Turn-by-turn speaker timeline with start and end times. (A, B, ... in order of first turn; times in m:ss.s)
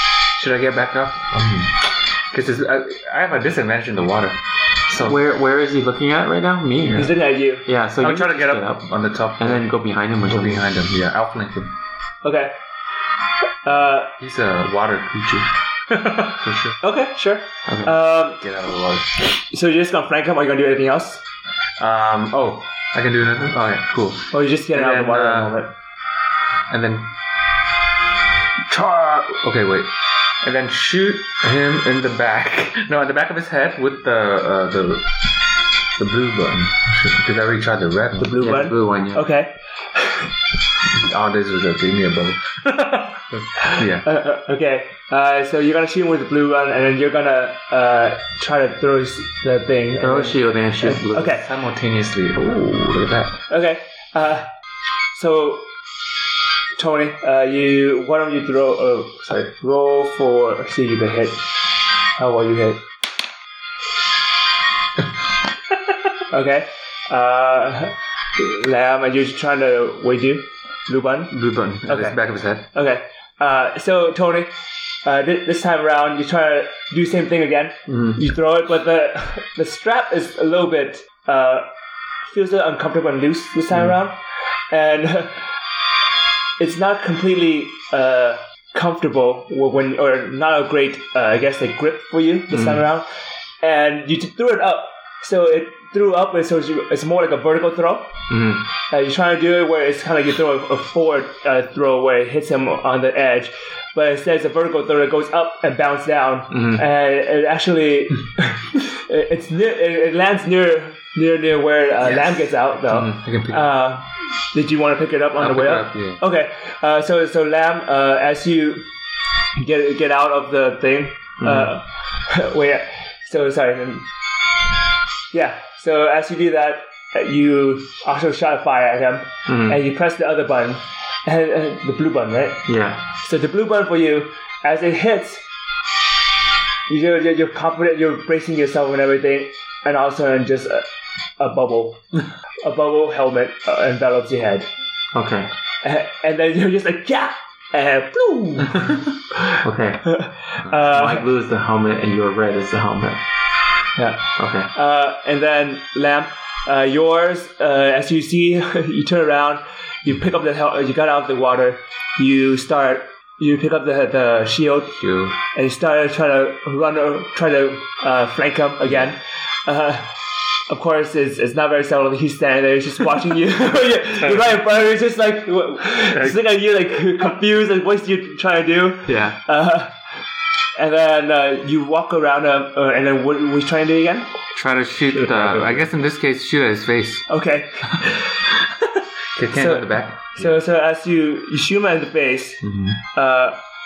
0:00.4-0:05.2 A
0:05.0-0:10.6 B
0:07.0-0:07.7 C
0:08.0-0:09.7 A
0:10.2-0:11.8 A
0:12.2-0:12.5 C
0:13.6-0:14.1 C
0:14.2-0:16.8 A
0:16.8-0:18.4 C
0:17.7-0:18.0 B
0:18.4-0:19.2 A
0:19.3-0:21.2 C
0:21.8-0:25.6 A
0:24.3-0:25.7 C
0:26.7-0:27.1 A
0:28.7-0:29.9 A
0:30.4-0:35.1 A
0:36.0-0:38.4 A
0:38.2-0:40.3 C
0:38.4-0:39.3 B
0:40.9-0:44.1 A
0:43.6-0:51.5 C
0:50.0-0:51.4 B
0:51.2-0:53.4 A
0:53.5-0:54.5 C
0:55.1-0:55.7 C
0:56.8-1:01.4 C
1:02.2-1:02.8 C
1:06.3-1:11.4 C
1:11.3-1:12.7 A
1:11.9-1:12.2 C
1:12.7-1:14.5 C
1:15.0-1:21.7 C
1:17.9-1:18.2 B
1:22.3-1:25.5 C
1:26.6-1:33.1 C
1:32.5-1:32.8 B
1:33.6-1:38.2 C
1:38.3-1:38.7 B
1:38.9-1:58.9 C
1:46.5-1:46.8 B
1:52.0-1:52.6 A
1:52.9-1:53.2 B
1:53.1-1:53.7 A
1:55.4-1:56.2 A
1:59.6-2:04.1 C
2:01.4-2:01.7 B
2:05.3-2:15.4 C
2:09.5-2:09.8 B
2:12.7-2:13.0 B
2:16.9-2:20.9 C
2:21.4-2:22.0 C
2:22.6-2:24.7 C
2:25.1-2:25.5 B
2:25.8-2:29.0 C
2:29.6-2:30.2 B
2:30.0-2:31.3 C
2:30.7-2:33.2 B
2:34.0-2:45.0 C
2:34.4-2:34.7 B
2:45.0-2:45.4 A
2:45.5-2:50.2 C
2:50.7-3:00.0 C
2:54.2-2:54.6 A
2:56.0-2:56.4 A
2:59.1-2:59.4 A
3:00.8-3:04.3 C
3:04.5-3:07.3 A
3:05.2-3:05.8 B
3:07.3-3:08.5 C
3:09.4-3:10.6 A
3:09.5-3:12.6 C
3:12.6-3:13.0 A
3:13.1-3:13.6 C